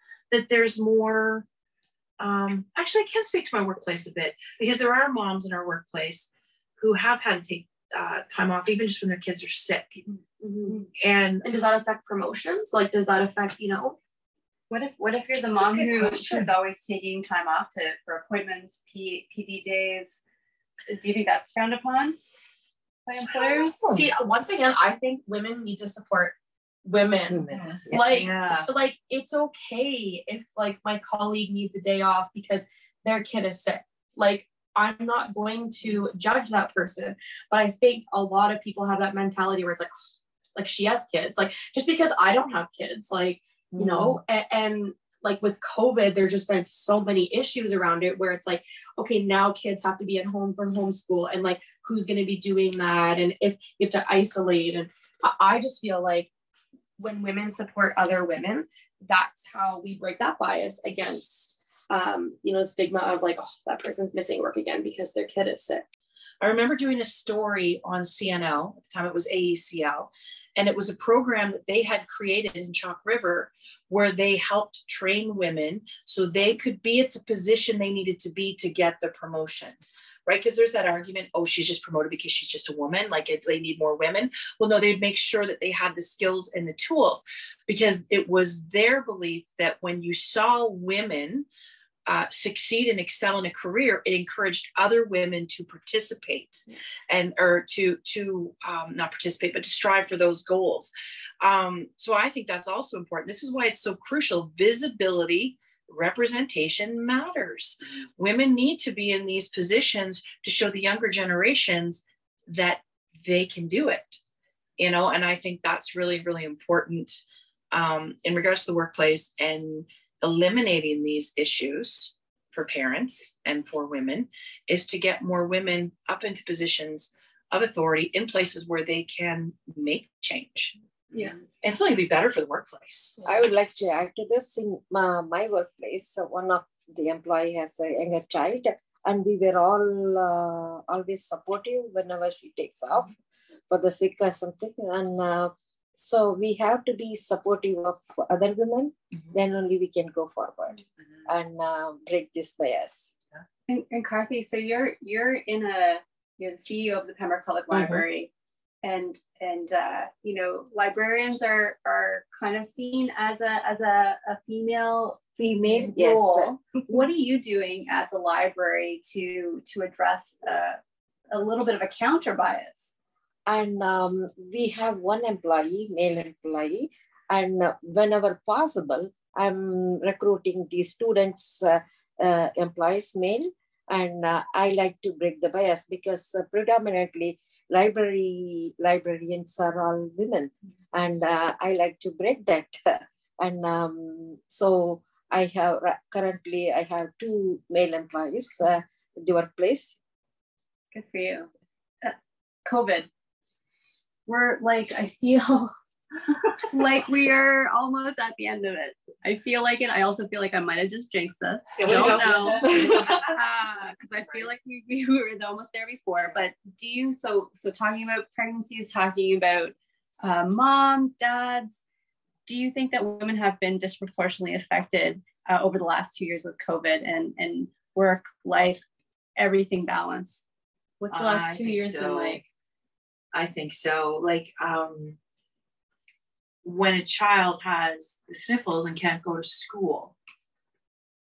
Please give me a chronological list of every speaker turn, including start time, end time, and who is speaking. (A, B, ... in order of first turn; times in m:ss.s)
0:00.3-0:01.5 A
0:02.2-0:10.0 A
0:10.4-0:10.9 B
0:10.7-0:11.5 A
0:11.4-0:14.0 B
0:14.7-0:20.2 C
0:15.5-0:16.5 A
0:20.9-0:22.2 C
0:23.1-0:24.0 C
0:23.4-0:24.1 A
0:23.9-0:39.9 B
0:27.3-0:28.4 D
0:28.0-0:28.7 A
0:40.6-0:56.3 B
0:43.8-0:44.2 A
0:57.0-1:05.8 B
1:06.4-1:31.5 A
1:32.1-1:54.2 A
1:54.8-2:10.8 A
2:11.6-2:13.2 A
2:13.2-2:23.2 D
2:23.7-2:33.1 D
2:33.7-2:38.3 C
2:38.8-2:50.8 C
2:45.4-2:46.6 D
2:51.3-2:53.0 C
2:53.5-3:20.0 D
3:20.9-3:21.5 C
3:22.0-3:23.1 C
3:24.3-3:25.7 C
3:26.6-3:41.8 C
3:31.8-3:33.4 A
3:42.5-3:48.8 C
3:49.4-3:50.4 C
3:51.0-3:52.4 C
3:51.1-3:52.4 A
3:53.3-3:55.2 A
3:56.6-4:00.2 A